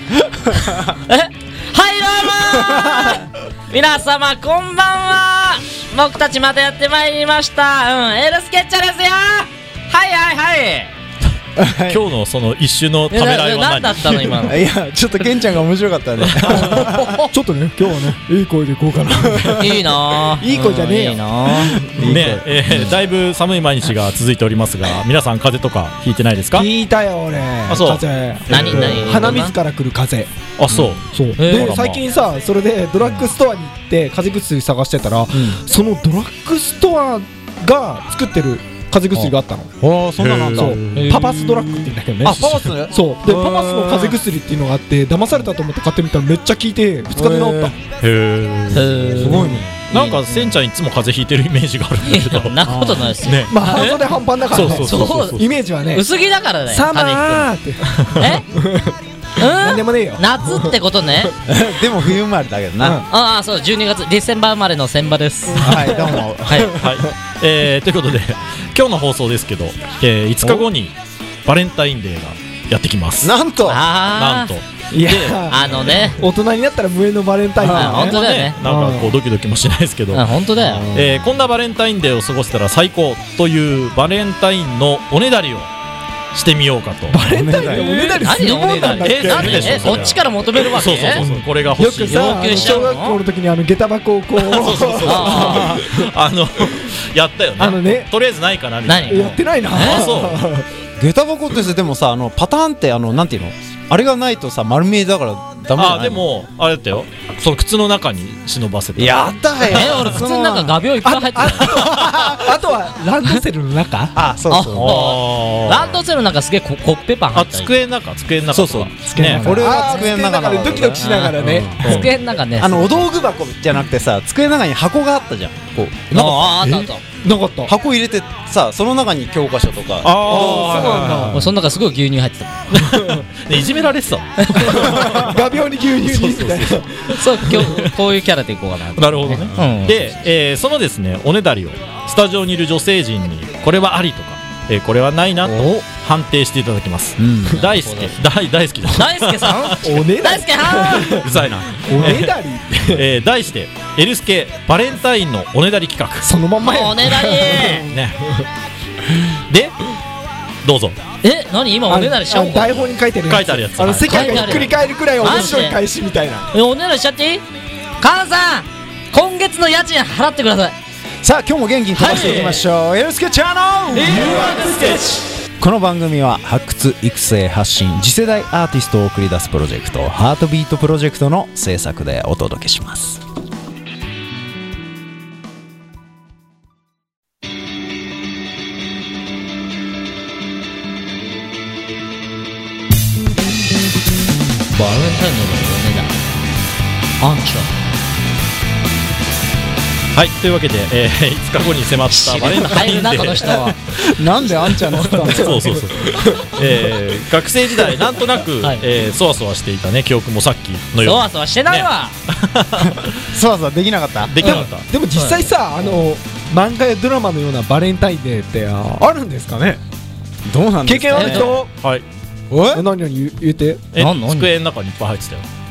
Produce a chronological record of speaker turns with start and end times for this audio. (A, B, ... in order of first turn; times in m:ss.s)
0:00.7-0:10.9 A
0:02.5-0:03.2 B
0:11.6-0:12.0 B
0:11.9-0:14.3 C
0:13.1-0:14.6 A
0:14.4-0:17.2 B
0:16.3-0:16.8 C
0:16.6-0:19.8 D
0:19.3-0:19.6 B
0:19.6-0:21.8 A
0:20.4-0:22.1 D
0:21.8-0:23.0 B
0:22.0-0:26.7 C
0:26.6-0:30.3 D
0:27.7-0:28.0 C
0:28.5-0:29.6 A
0:28.6-0:29.0 C
0:30.6-0:32.0 C
0:30.7-0:31.0 B
0:31.1-0:39.7 D
0:31.4-0:31.8 A
0:35.3-0:35.6 B
0:39.8-0:44.2 B
0:40.2-0:40.9 C
0:40.6-0:47.8 D
0:40.9-0:41.4 A
0:42.3-0:42.7 C
0:47.1-0:47.8 B
0:48.0-0:53.9 C
0:48.7-0:50.6 A
0:49.2-0:49.7 B
0:49.3-0:49.6 D
0:52.1-0:57.5 A
0:52.6-0:53.2 B
0:53.5-0:56.1 D
0:54.5-0:55.5 C
0:56.7-1:01.3 D
0:58.1-0:58.4 A
0:59.4-1:01.3 A
1:01.5-1:03.0 B
1:02.8-1:03.1 D
1:03.1-1:06.7 A
1:05.5-1:07.0 D
1:05.6-1:06.8 B
1:06.6-1:10.9 C
1:11.4-1:13.3 C
1:13.2-1:13.8 B
1:13.6-1:14.5 A
1:14.1-1:15.5 C
1:14.9-1:19.2 D
1:15.5-1:16.2 A
1:17.6-1:18.6 A
1:17.7-1:20.3 C
1:20.1-1:20.9 A
1:20.6-1:21.3 B
1:20.9-1:25.7 C
1:26.3-1:27.2 C
1:27.1-1:30.0 D
1:27.2-1:28.0 B
1:27.7-1:31.2 A
1:28.9-1:32.8 C
1:31.2-1:36.1 D
1:32.1-1:33.2 A
1:34.4-1:40.4 C
1:35.0-1:35.8 A
1:37.6-1:38.1 D
1:38.9-1:40.0 A
1:39.1-1:40.7 D
1:41.0-1:46.3 B
1:45.8-1:50.1 C
1:49.0-1:50.7 B
1:49.7-1:51.8 A
1:51.0-1:54.2 D
1:51.7-1:52.6 B
1:51.8-1:52.2 C
1:54.1-1:55.1 B
1:54.5-1:57.7 A
1:54.7-1:56.0 C
1:57.3-1:59.5 C
1:58.5-2:01.8 B
1:59.1-2:01.8 D
1:59.2-2:00.1 A
2:01.0-2:03.1 A
2:01.4-2:02.1 C
2:02.6-2:06.6 B
2:06.1-2:07.0 A
2:06.6-2:06.9 C
2:07.2-2:07.7 D
2:07.7-2:11.3 B
2:10.0-2:11.5 C
2:10.3-2:11.4 D
2:10.4-2:12.8 A
2:12.7-2:17.9 C
2:12.8-2:13.2 D
2:14.4-2:14.7 A
2:14.6-2:17.6 D
2:17.1-2:20.1 A
2:19.0-2:30.0 C
2:27.2-2:27.7 B
2:27.6-2:28.2 A
2:28.8-2:31.3 A
2:29.8-2:33.0 D
2:31.2-2:32.4 C
2:32.9-2:36.3 C
2:36.2-2:38.4 D
2:36.6-2:37.9 A
2:37.9-2:38.2 C
2:39.5-2:39.9 C
2:40.6-2:41.0 C
2:41.2-2:42.8 A
2:41.9-2:46.5 D
2:42.7-2:44.8 C
2:44.1-2:45.8 A
2:46.5-2:47.4 A
2:48.0-2:50.8 A
2:51.2-2:55.0 B
2:52.0-2:52.6 A
2:54.0-2:55.2 A
2:54.0-2:55.0 D
2:55.6-3:03.2 B
3:14.7-3:16.2 A
3:17.2-3:17.4 B
3:17.3-3:17.7 A
3:20.2-3:33.1 C
3:22.1-3:23.8 A
3:24.2-3:25.8 B
3:25.3-3:26.7 D
3:31.0-3:32.2 A
3:32.9-3:34.6 B
3:34.3-3:34.9 C
3:34.4-3:39.8 D
3:35.1-3:35.5 A
3:40.5-3:41.6 B
3:40.8-3:41.7 D
3:41.1-3:41.6 A
3:41.8-3:42.0 C
3:42.5-3:42.8 B
3:42.7-3:43.8 D
3:43.9-3:45.5 C
3:44.0-3:44.5 A